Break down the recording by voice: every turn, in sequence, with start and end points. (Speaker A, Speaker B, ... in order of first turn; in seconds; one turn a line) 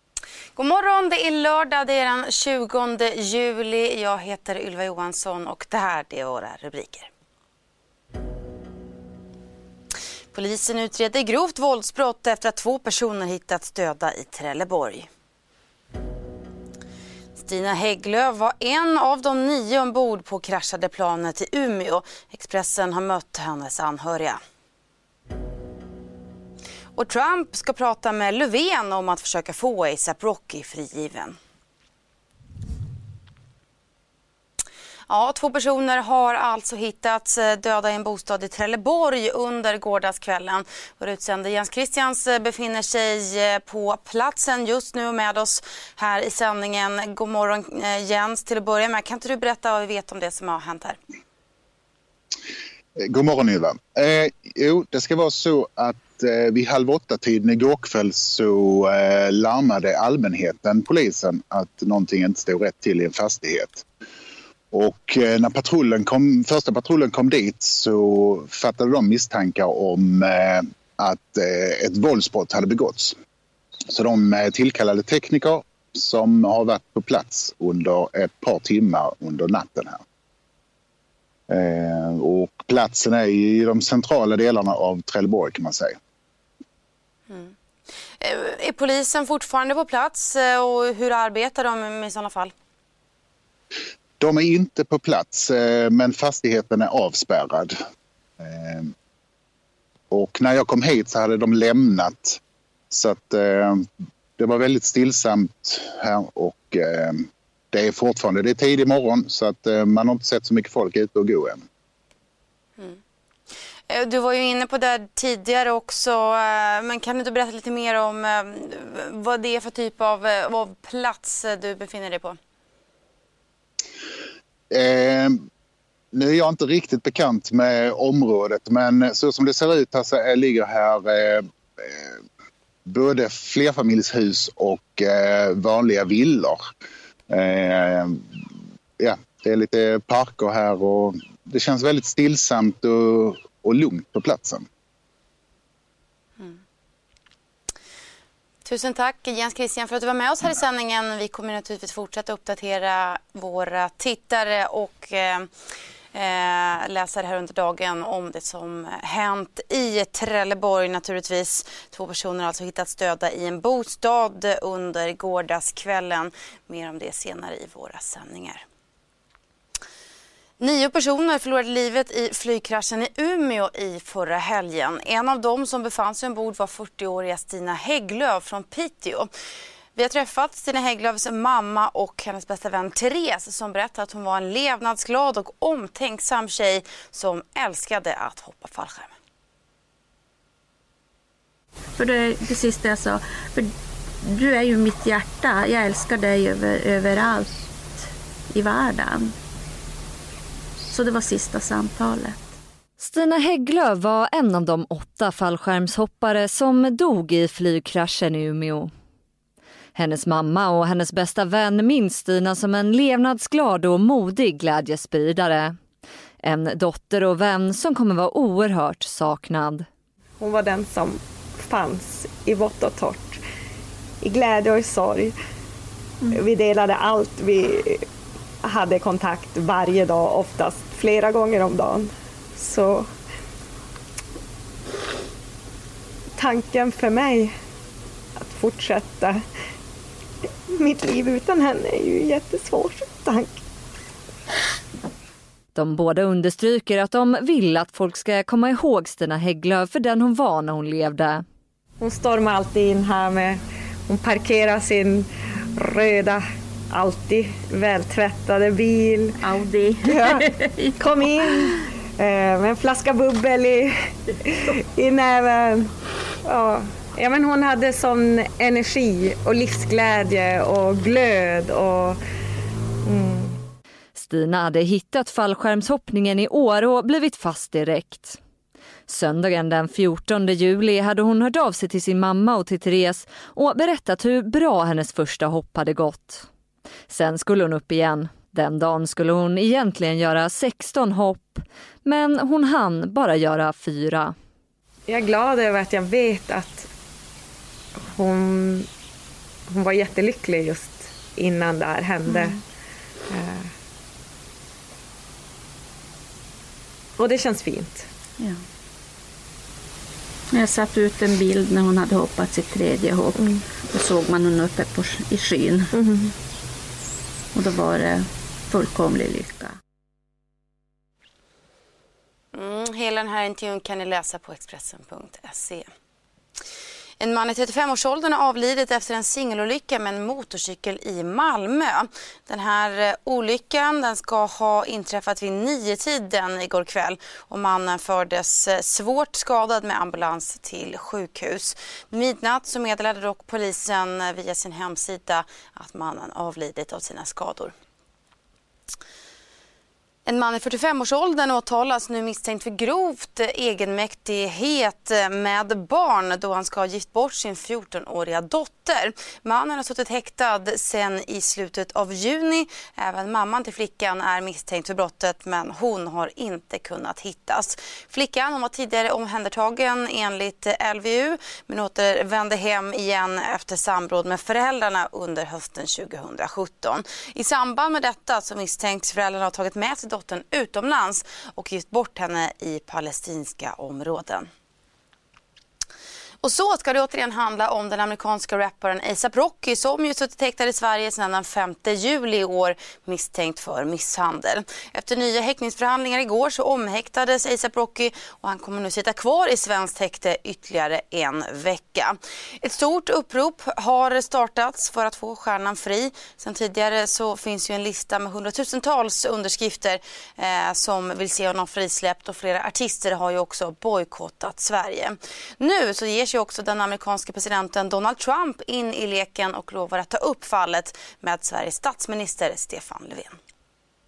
Speaker A: 0.6-7.1
Speaker A: 10.3-15.1
Speaker A: 17.4-24.4
Speaker A: 26.9-31.4
Speaker A: 35.1-51.0
Speaker B: 53.0-63.8
Speaker B: 64.7-73.2
Speaker B: 73.9-80.0
Speaker B: 81.5-86.0
Speaker A: 88.2-92.5
Speaker B: 94.2-97.7
Speaker B: 98.4-98.9
Speaker B: 100.1-102.4
Speaker B: 102.9-103.9
Speaker B: 104.4-111.6
Speaker A: 113.9-122.4
Speaker B: 124.7-125.4
Speaker B: 126.1-132.2
Speaker B: 132.9-136.6
Speaker B: 137.3-138.2
Speaker B: 139.0-144.7
Speaker A: 148.7-155.5
Speaker A: 156.1-168.6
Speaker A: 170.6-179.3
Speaker A: 179.9-189.1
Speaker C: 192.0-193.7
Speaker C: 194.2-197.5
Speaker C: 198.5-199.3
Speaker C: 200.9-202.4
Speaker D: 203.0-208.9
Speaker D: 209.9-215.8
Speaker D: 216.4-219.9
Speaker E: 220.4-223.4
Speaker E: 224.2-225.3
Speaker E: 226.2-228.1
Speaker E: 228.6-233.1
Speaker E: 236.4-237.5
Speaker E: 238.4-239.4
Speaker E: 240.8-243.6
Speaker D: 245.7-251.4
Speaker E: 252.0-259.4
Speaker C: 259.4-260.9
Speaker E: 260.1-265.9
Speaker E: 266.4-272.2
Speaker E: 273.1-273.6
Speaker D: 274.1-278.4
Speaker D: 279.1-286.5
Speaker D: 287.1-294.3
Speaker E: 295.1-296.9
Speaker E: 298.1-298.9
Speaker E: 299.7-302.6
Speaker C: 302.3-302.6
Speaker E: 303.3-303.7
Speaker E: 307.2-308.1
Speaker C: 310.5-315.9
Speaker E: 313.4-313.6
Speaker E: 315.9-316.3
Speaker C: 317.5-319.7
Speaker A: 322.5-325.9
Speaker A: 327.2-347.7
Speaker A: 350.3-384.5
Speaker A: 386.4-423.4